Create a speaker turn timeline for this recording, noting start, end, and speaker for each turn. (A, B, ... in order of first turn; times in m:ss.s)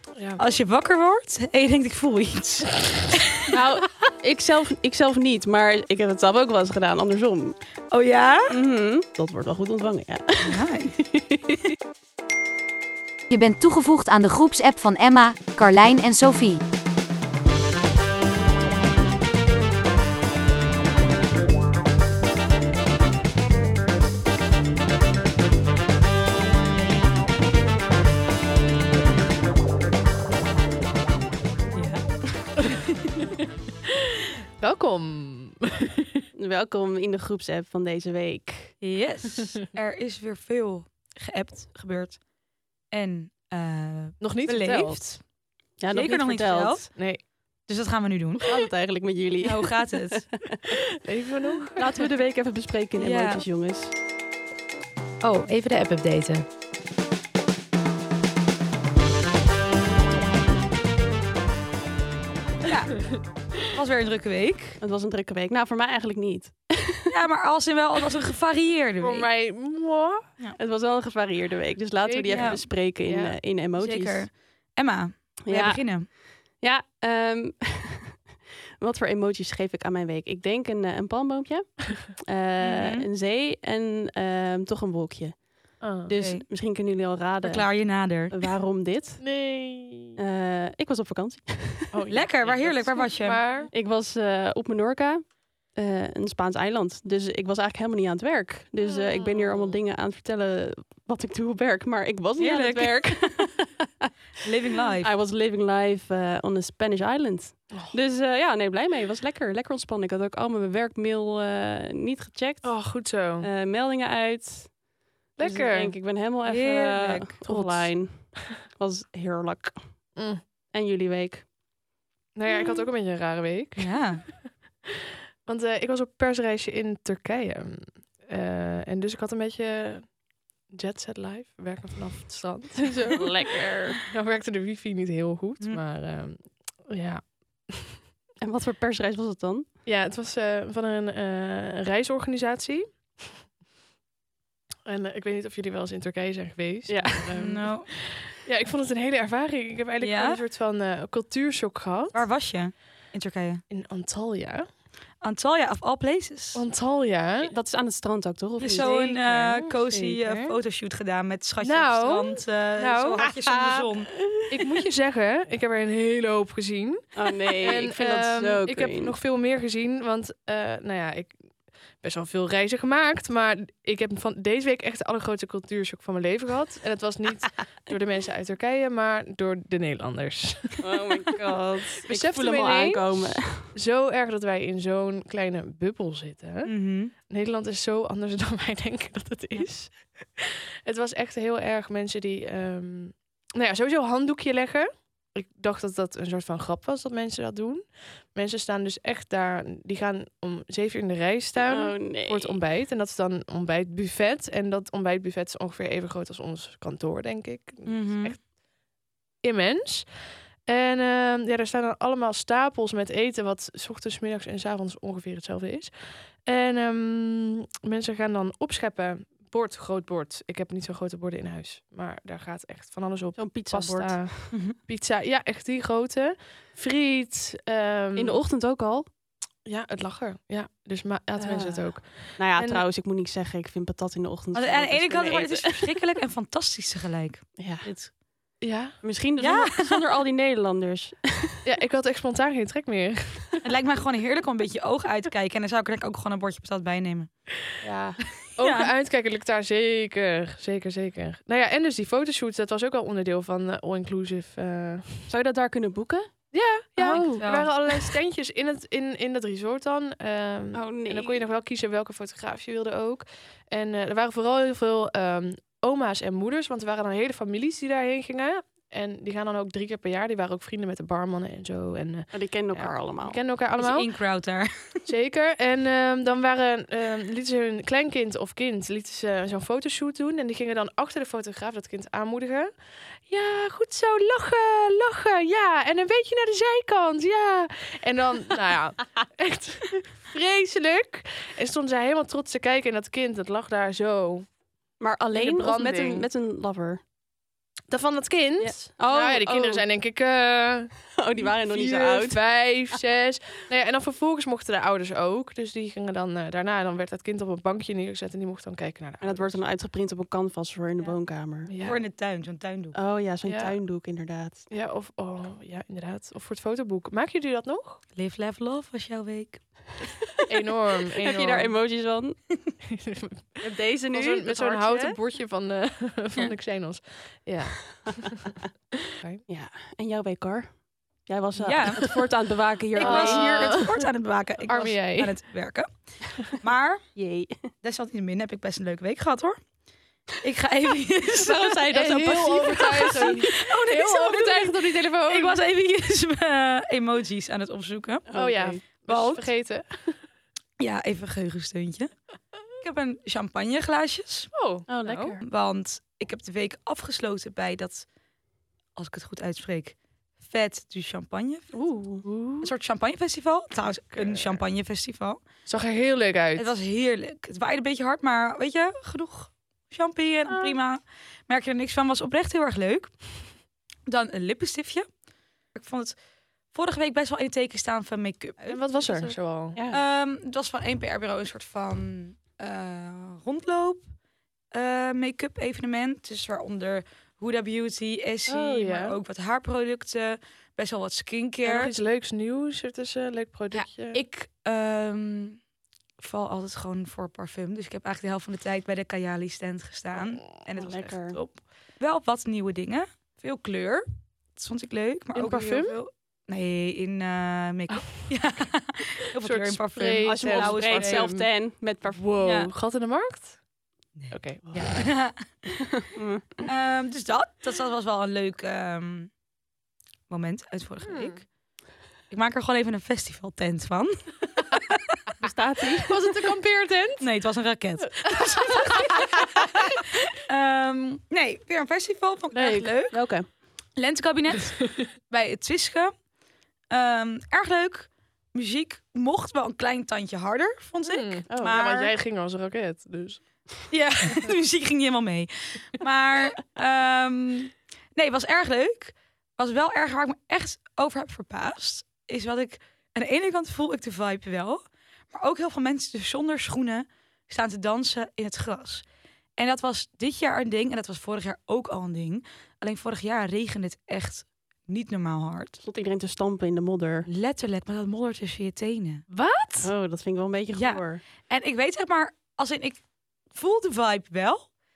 0:00.2-0:00.4 A
0:00.4-0:03.3 B
0:03.5-0:07.6 C
0:07.9-0:08.5 B
0:08.5-0:11.6 C
0:10.4-0:10.9 B
0:13.3-0:16.6 D
0:31.7-0:32.2 B
0:34.6-0:36.2 A
0:36.3-0:38.8 C
0:38.8-0:42.2 B
0:42.9-0:45.2 B
0:44.2-0:45.2 A
0:45.8-0:46.8 C
0:45.9-0:47.0 B
0:46.9-0:47.2 A
0:47.6-0:48.5 B
0:48.4-0:50.8 C
0:49.4-0:50.3 B
0:51.0-0:51.9 A
0:51.7-0:53.9 C
0:53.0-0:53.4 B
0:55.2-0:56.4 B
1:02.6-1:04.8 B
1:04.8-1:07.1 C
1:07.1-1:09.3 B
1:09.0-1:10.3 A
1:10.6-1:14.2 C
1:12.0-1:13.4 A
1:12.3-1:12.6 B
1:13.8-1:16.1 B
1:15.4-1:18.2 C
1:18.8-1:25.4 C
1:22.6-1:23.1 B
1:25.8-1:26.1 A
1:26.0-1:29.2 C
1:26.2-1:26.4 B
1:27.4-1:28.4 B
1:29.2-1:30.1 A
1:30.2-1:32.0 C
1:31.9-1:33.7 A
1:32.1-1:33.4 B
1:33.7-1:44.1 C
1:38.8-1:39.7 A
1:42.4-1:43.0 B
1:44.4-1:45.1 B
1:45.0-1:52.8 C
1:52.6-1:53.5 A
1:53.4-1:54.8 C
1:55.4-1:55.9 A
1:55.4-1:59.9 C
1:56.4-1:57.3 B
1:57.4-1:58.3 A
2:00.2-2:00.4 A
2:00.7-2:01.5 C
2:02.4-2:04.5 A
2:02.5-2:02.8 C
2:03.8-2:04.2 B
2:05.4-2:10.1 A
2:10.7-2:13.2 A
2:13.1-2:14.0 C
2:14.0-2:18.0 A
2:18.4-2:19.7 C
2:19.8-2:23.4 A
2:24.8-2:32.2 A
2:26.8-2:27.6 C
2:27.4-2:27.9 B
2:30.0-2:30.4 B
2:32.1-2:33.6 B
2:33.7-2:34.6 A
2:35.2-2:36.6 B
2:36.5-2:37.5 A
2:37.4-2:39.7 C
2:38.6-2:44.1 B
2:38.7-2:40.6 A
2:41.6-2:43.2 A
2:43.2-2:44.6 C
2:44.5-2:51.4 A
2:47.1-2:49.2 C
2:52.0-3:01.3 A
3:00.8-3:03.7 C
3:02.0-3:28.4 A
3:06.6-3:07.1 B
3:21.6-3:22.6 C
3:27.8-3:28.4 B
3:29.4-3:30.1 A
3:30.6-3:48.4 A
3:43.4-3:44.5 C
3:48.2-3:49.1 C
3:49.6-3:52.8 A
3:51.4-3:55.9 C
3:54.5-3:58.1 B
3:57.6-3:57.9 C
3:58.6-3:59.0 A
3:59.0-4:01.6 C
3:59.4-4:00.0 B
4:01.6-4:03.6 A
4:03.6-4:07.3 B
4:07.8-4:08.2 C
4:08.6-4:15.3 A
4:08.6-4:08.9 B
4:15.3-4:16.3 C
4:16.5-4:34.1 A
4:17.0-4:17.5 C
4:17.0-4:17.7 B
4:20.7-4:21.4 C
4:32.3-4:33.4 C
4:33.8-4:34.7 B
4:35.1-4:42.7 A
4:43.3-4:54.5 A
4:55.0-4:57.0 C
4:55.3-4:56.3 A
4:57.9-5:01.0 A
4:58.6-4:59.8 C
5:01.2-5:02.4 C
5:01.7-5:09.5 A
5:09.2-5:11.7 C
5:11.7-5:12.0 A
5:11.8-5:13.0 B
5:12.9-5:14.7 C
5:13.4-5:13.7 A
5:14.7-5:18.0 A
5:18.2-5:19.6 B
5:20.4-5:21.8 A
5:21.2-5:22.4 C
5:22.9-5:29.4 A
5:23.6-5:25.2 C
5:29.5-5:30.7 C
5:31.2-5:33.8 C
5:31.6-5:32.1 B
5:33.0-5:37.0 B
5:33.0-5:33.9 A
5:34.6-5:35.4 A
5:37.2-5:37.6 C
5:37.8-5:39.6 B
5:40.4-5:48.2 B
5:41.3-5:43.4 C
5:41.9-5:45.6 A
5:48.3-5:48.8 C
5:48.3-5:50.2 A
5:49.1-5:49.5 B
5:50.8-5:52.1 B
5:52.8-5:54.5 B
5:54.5-5:55.4 A
5:54.9-5:55.4 C
5:55.4-5:58.0 B
5:58.9-6:01.7 B
6:01.7-6:02.2 C
6:02.2-6:02.7 A
6:02.6-6:05.4 B
6:04.1-6:04.6 A
6:05.6-6:06.7 A
6:06.6-6:13.2 B
6:10.5-6:10.7 A
6:14.1-6:15.1 B
6:15.7-6:16.1 B
6:16.7-6:19.4 B
6:18.7-6:19.8 A
6:19.7-6:20.0 C
6:19.9-6:24.1 B
6:24.7-6:31.9 B
6:28.5-6:29.2 A
6:31.6-6:34.2 A
6:33.7-6:35.6 B
6:36.2-6:51.3 B
6:40.8-6:41.4 C
6:45.3-6:46.0 A
6:49.4-6:51.5 A
6:50.2-6:52.2 C
6:52.1-6:53.6 A
6:52.4-6:52.7 B
6:54.2-6:55.8 B
6:54.3-6:54.9 A
6:56.0-6:56.6 C
6:56.6-6:59.3 B
7:00.3-7:01.4 B
7:01.0-7:01.4 A
7:02.3-7:05.0 B
7:05.4-7:06.2 C
7:06.0-7:07.2 A
7:07.2-7:13.2 B
7:08.2-7:09.6 A
7:12.5-7:13.5 C
7:14.0-7:16.1 B
7:16.9-7:22.0 B
7:21.0-7:23.4 A
7:21.5-7:22.1 C
7:23.9-7:34.8 B
7:35.3-7:39.0 B
7:39.6-7:45.8 B
7:45.8-7:47.3 C
7:47.3-7:49.2 B
7:49.3-7:49.9 A
7:49.8-7:51.2 C
7:50.7-7:53.0 B
7:53.5-7:54.7 B